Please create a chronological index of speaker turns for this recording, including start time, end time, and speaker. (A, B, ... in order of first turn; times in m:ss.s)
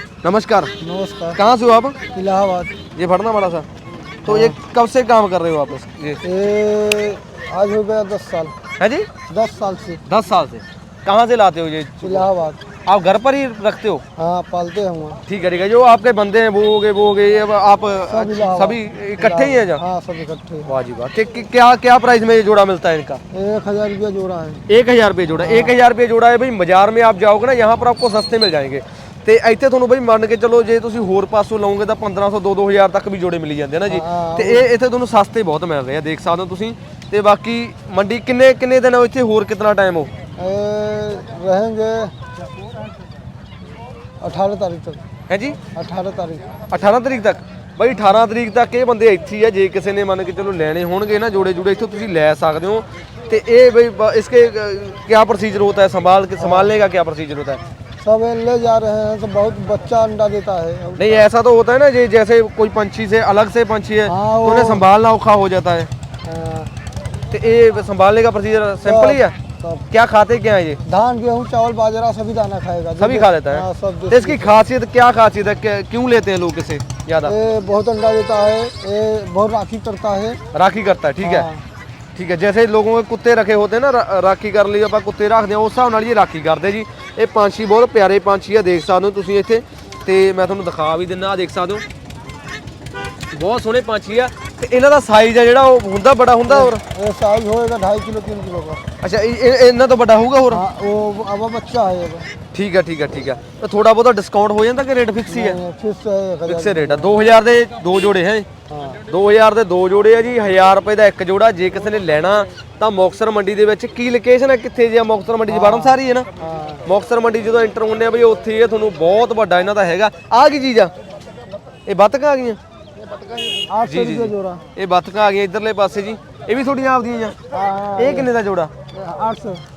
0:00.2-0:00.7 A
0:00.8-0:01.4 B
0:01.3-0:02.0 A
0:02.1-0:02.7 B
0:02.9-0:03.6 A
0:04.2-0:04.6 B
0:04.2-0:06.2 A
0:06.2-0:08.5 B
0:08.8-0:09.1 A
0:09.3-0:10.0 B
0:10.0-0:12.3 A
0:12.0-0:12.6 B
0:12.8-0:14.0 A
0:14.2-0:15.2 B
0:15.3-0:19.8 A
0:18.1-0:20.7 B
0:20.7-0:23.2 A
0:23.3-0:24.6 B
0:24.7-0:40.1 A
0:25.4-0:25.7 B
0:33.9-0:34.7 B
0:40.4-0:42.2 B
0:44.2-0:45.0 B
0:45.3-0:45.6 A
0:45.7-0:46.5 B
0:46.7-0:57.6 A
0:56.4-0:56.7 B
0:58.0-1:01.3 B
1:01.0-1:05.9 A
1:04.0-1:04.8 B
1:06.2-1:06.7 B
1:07.3-1:09.4 A
1:08.8-1:09.8 B
1:09.9-1:10.8 A
1:10.8-1:14.5 B
1:13.0-1:17.3 A
1:17.2-1:20.4 B
1:20.5-1:21.5 A
1:21.2-1:21.6 B
1:22.2-1:31.8 A
1:33.3-1:36.8 A
1:36.5-1:38.8 B
1:39.0-1:40.6 A
1:40.5-1:42.3 B
1:42.5-1:45.6 A
1:45.3-1:47.2 B
1:46.5-1:48.5 A
1:48.7-1:49.0 B
1:49.0-1:56.3 A
1:55.5-1:56.8 B
1:56.8-2:00.9 A
2:01.9-2:02.6 A
2:03.4-2:04.6 B
2:03.8-2:07.4 A
2:07.5-2:08.3 B
2:08.0-2:08.7 A
2:08.9-2:09.6 B